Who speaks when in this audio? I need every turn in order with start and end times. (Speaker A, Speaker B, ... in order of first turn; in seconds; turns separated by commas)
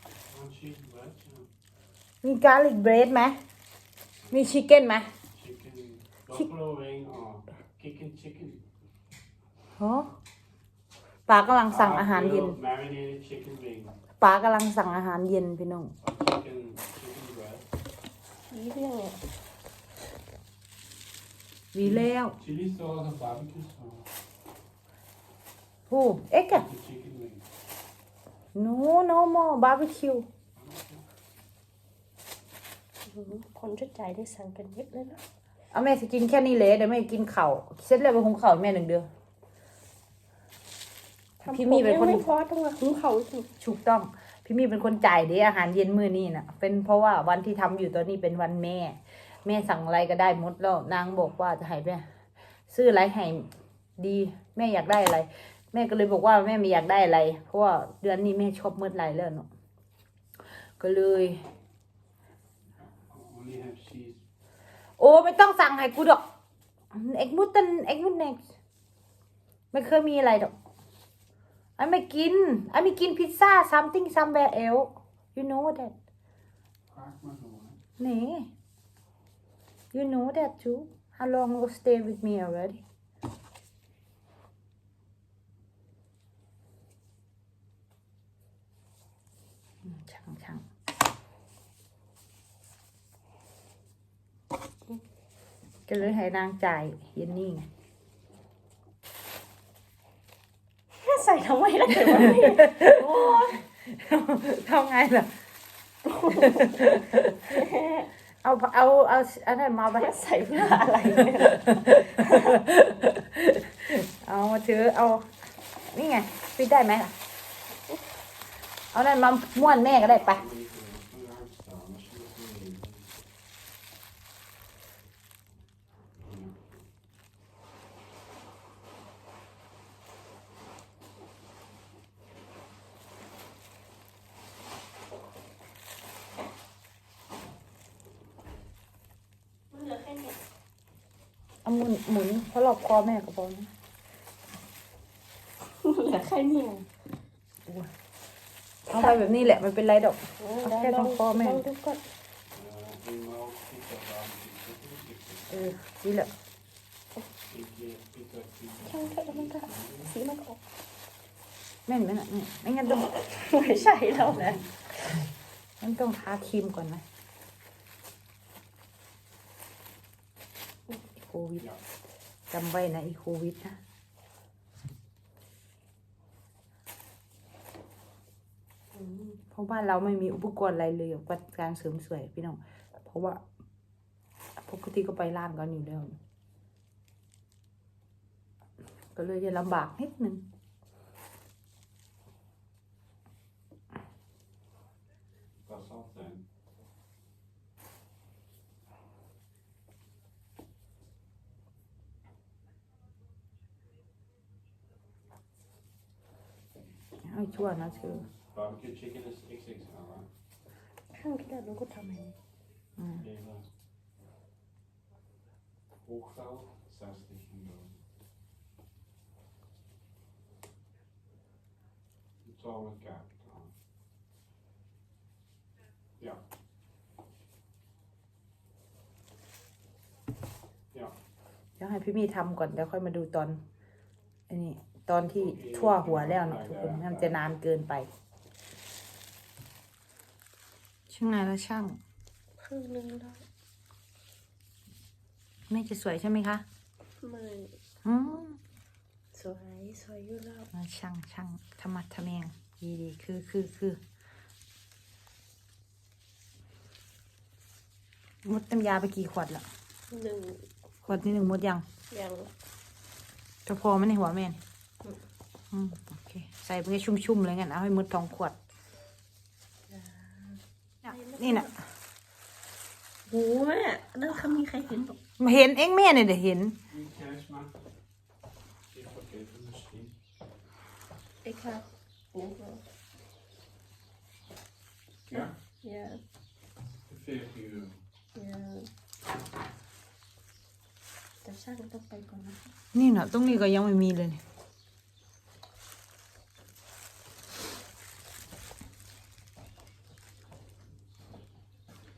Speaker A: 0.3-1.5, Speaker B: 2.2-3.4, Speaker B: 4.3-5.1, Speaker A: 5.3-8.6, Speaker B: 9.8-10.1, Speaker B: 11.3-12.6, Speaker A: 11.7-14.0, Speaker B: 14.2-15.9, Speaker A: 16.0-17.7, Speaker C: 18.5-19.2, Speaker B: 21.7-22.4, Speaker A: 21.8-24.1, Speaker B: 25.9-26.7, Speaker A: 26.5-27.4, Speaker B: 28.6-30.3, Speaker A: 30.6-31.0, Speaker C: 33.1-35.2, Speaker B: 35.7-39.1, Speaker B: 41.4-42.3, Speaker C: 41.5-43.5, Speaker B: 43.6-52.0, Speaker B: 52.7-59.5, Speaker B: 60.8-61.4, Speaker A: 62.8-64.2, Speaker B: 65.0-66.2, Speaker B: 66.9-68.4, Speaker B: 69.7-70.5, Speaker B: 71.8-75.9, Speaker A: 76.9-77.8, Speaker B: 78.0-78.5, Speaker B: 79.9-82.8, Speaker B: 89.8-90.7, Speaker B: 95.9-97.7, Speaker C: 101.0-103.6, Speaker B: 102.5-105.3, Speaker C: 106.1-107.0, Speaker B: 106.4-107.3, Speaker C: 107.5-108.1, Speaker B: 108.4-110.7, Speaker C: 109.9-112.6, Speaker B: 111.5-115.3, Speaker B: 115.8-117.1, Speaker B: 118.9-120.4, Speaker A: 119.7-123.1, Speaker A: 126.2-126.7, Speaker C: 139.7-140.4, Speaker B: 141.7-143.7, Speaker C: 145.8-146.9, Speaker B: 148.9-151.6, Speaker C: 148.9-149.3, Speaker C: 150.4-152.0, Speaker A: 152.5-155.7, Speaker B: 155.5-156.3, Speaker A: 157.5-160.1, Speaker C: 158.8-160.6, Speaker B: 161.9-163.1, Speaker C: 162.9-164.6, Speaker A: 163.6-164.7, Speaker B: 165.8-167.0, Speaker B: 171.2-171.7, Speaker B: 172.5-173.8, Speaker C: 179.0-179.4, Speaker B: 179.5-183.4, Speaker B: 184.6-186.2, Speaker B: 189.1-190.4, Speaker A: 195.7-196.4, Speaker B: 207.2-208.3, Speaker A: 208.0-210.3, Speaker C: 211.1-212.3, Speaker A: 213.2-213.7, Speaker A: 216.0-217.9, Speaker A: 222.4-223.7, Speaker B: 231.8-233.6, Speaker B: 234.5-238.1, Speaker A: 235.4-237.4, Speaker B: 241.1-242.0, Speaker C: 242.6-243.4, Speaker B: 245.7-246.6, Speaker C: 247.2-247.7, Speaker B: 248.1-248.6, Speaker C: 249.3-250.7, Speaker B: 250.7-254.0, Speaker B: 258.4-259.6, Speaker C: 260.1-261.2, Speaker B: 261.1-261.8, Speaker C: 262.1-262.5, Speaker B: 263.7-264.6, Speaker B: 265.7-268.6, Speaker C: 269.9-271.7, Speaker B: 271.1-271.7, Speaker C: 273.3-275.2, Speaker B: 275.2-276.8, Speaker A: 276.9-277.7, Speaker A: 278.9-280.1, Speaker C: 281.4-282.8, Speaker A: 285.3-285.5, Speaker C: 285.3-286.2, Speaker A: 287.1-288.0, Speaker C: 288.4-288.9, Speaker C: 291.4-292.7, Speaker B: 292.9-294.4